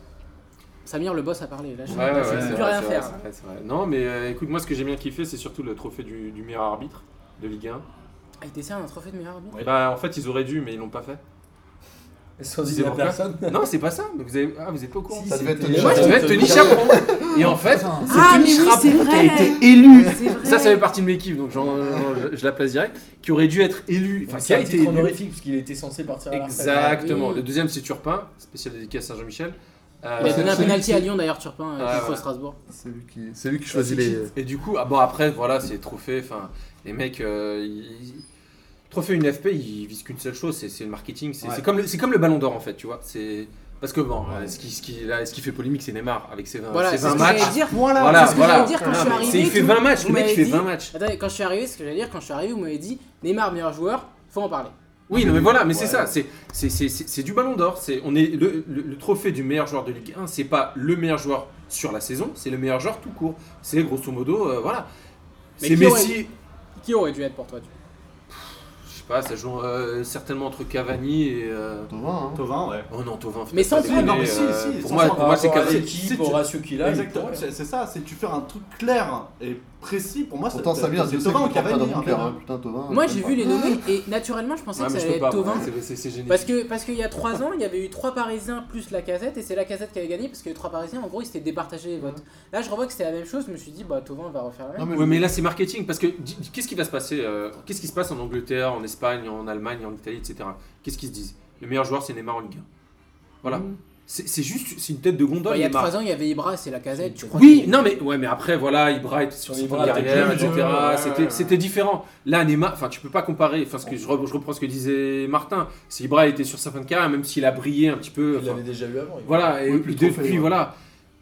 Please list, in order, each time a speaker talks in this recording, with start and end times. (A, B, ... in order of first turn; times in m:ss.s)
0:00.8-0:03.2 A
0:01.9-0:07.8 B
0:02.1-0:02.7 C
0:08.4-0:09.7 A
0:09.6-0:11.2 B
0:12.4-0:13.7 D
0:12.6-0:25.2 B
0:15.1-0:17.3 D
0:15.2-0:20.3 E
0:15.8-0:16.1 A
0:18.1-0:20.8 A
0:21.6-0:22.2 E
0:24.3-0:27.3 D
0:26.3-0:30.8 B
0:26.9-0:27.4 A
0:30.2-0:32.6 A
0:30.2-0:31.0 E
0:30.2-0:30.8 D
0:31.8-0:32.2 B
0:32.7-0:34.3 E
0:33.7-0:34.2 A
0:34.3-0:38.2 B
0:38.9-0:50.9 B
0:46.7-0:54.7 A
0:47.0-0:49.7 C
0:55.1-1:04.9 B
0:55.1-0:56.1 E
1:05.6-1:06.2 A
1:05.6-1:06.3 B
1:06.8-1:07.7 A
1:08.3-1:11.9 B
1:11.9-1:12.4 E
1:12.4-1:12.9 C
1:12.9-1:15.9 B
1:13.5-1:14.4 A
1:13.8-1:22.4 C
1:15.1-1:17.5 D
1:20.5-1:23.8 E
1:22.9-1:25.7 A
1:24.8-1:26.5 B
1:26.3-1:34.9 A
1:34.8-1:35.4 E
1:34.9-1:42.7 B
1:43.4-1:45.9 B
1:45.5-1:47.9 A
1:47.0-1:47.8 D
1:47.3-1:58.6 B
1:49.4-1:50.9 D
1:49.8-1:51.5 E
1:49.8-1:51.4 C
1:58.3-1:59.5 D
1:59.2-2:00.7 B
1:59.6-2:00.6 E